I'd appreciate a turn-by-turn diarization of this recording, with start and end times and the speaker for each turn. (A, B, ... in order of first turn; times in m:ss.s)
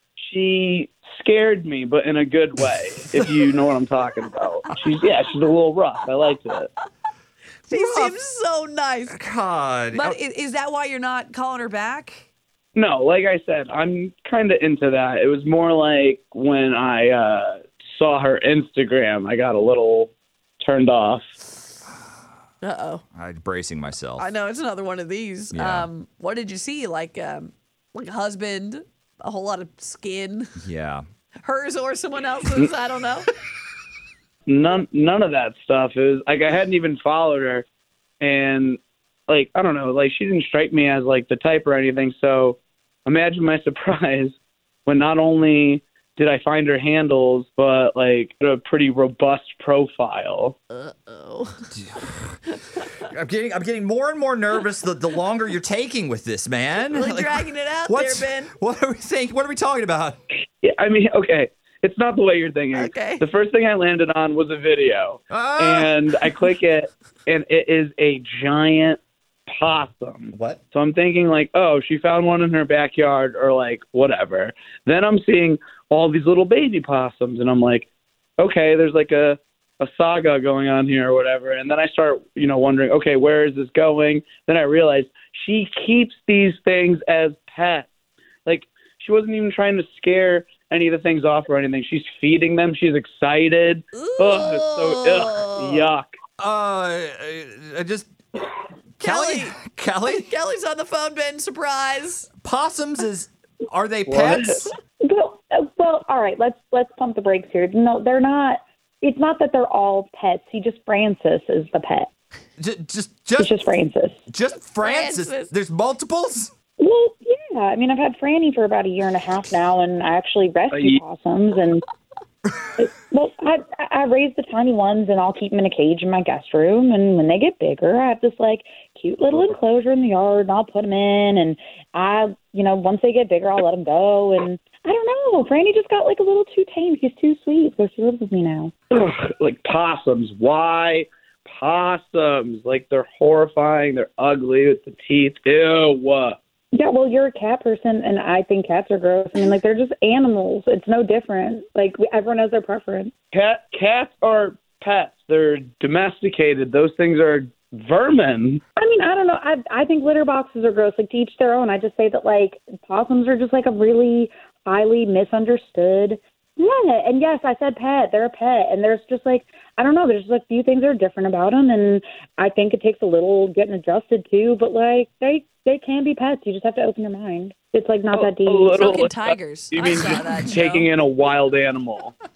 0:00.2-0:06.7 A
0:07.7-0:09.2 B
0:07.7-0:08.2 C
0:09.1-0:10.2 C
0:09.9-0:12.2 B
0:12.7-0:21.3 A
0:22.6-0:23.0 B
0:23.1-0:24.3 C
0:24.2-0:30.5 B
0:25.5-0:25.9 C
0:30.6-0:31.0 C
0:31.4-0:33.3 B
0:34.4-0:37.6 A
0:38.2-0:44.3 A
0:44.8-0:50.6 A
0:50.7-0:51.7 B
0:51.7-0:52.4 C
0:53.1-1:00.2 C
0:56.9-0:58.5 B
1:00.6-1:17.9 A
1:02.7-1:03.2 B
1:05.3-1:06.2 C
1:10.3-1:10.6 C
1:18.4-1:27.9 A
1:28.4-1:36.1 A
1:33.9-1:35.9 B
1:36.4-1:38.1 C
1:39.0-1:40.3 C
1:39.0-1:39.5 B
1:40.0-1:42.3 B
1:42.4-1:44.7 C
1:44.1-1:44.6 A
1:45.0-1:52.1 D
1:52.6-1:53.5 C
1:53.4-1:54.2 D
1:54.3-1:56.5 C
1:54.8-1:55.5 B
1:56.8-2:01.8 D
2:00.7-2:01.0 A
2:02.8-2:18.7 D
2:18.9-2:26.4 A
2:26.7-2:33.1 D
2:33.3-2:38.6 A
2:38.8-2:59.1 D
2:58.1-3:02.1 A
2:58.8-3:00.9 B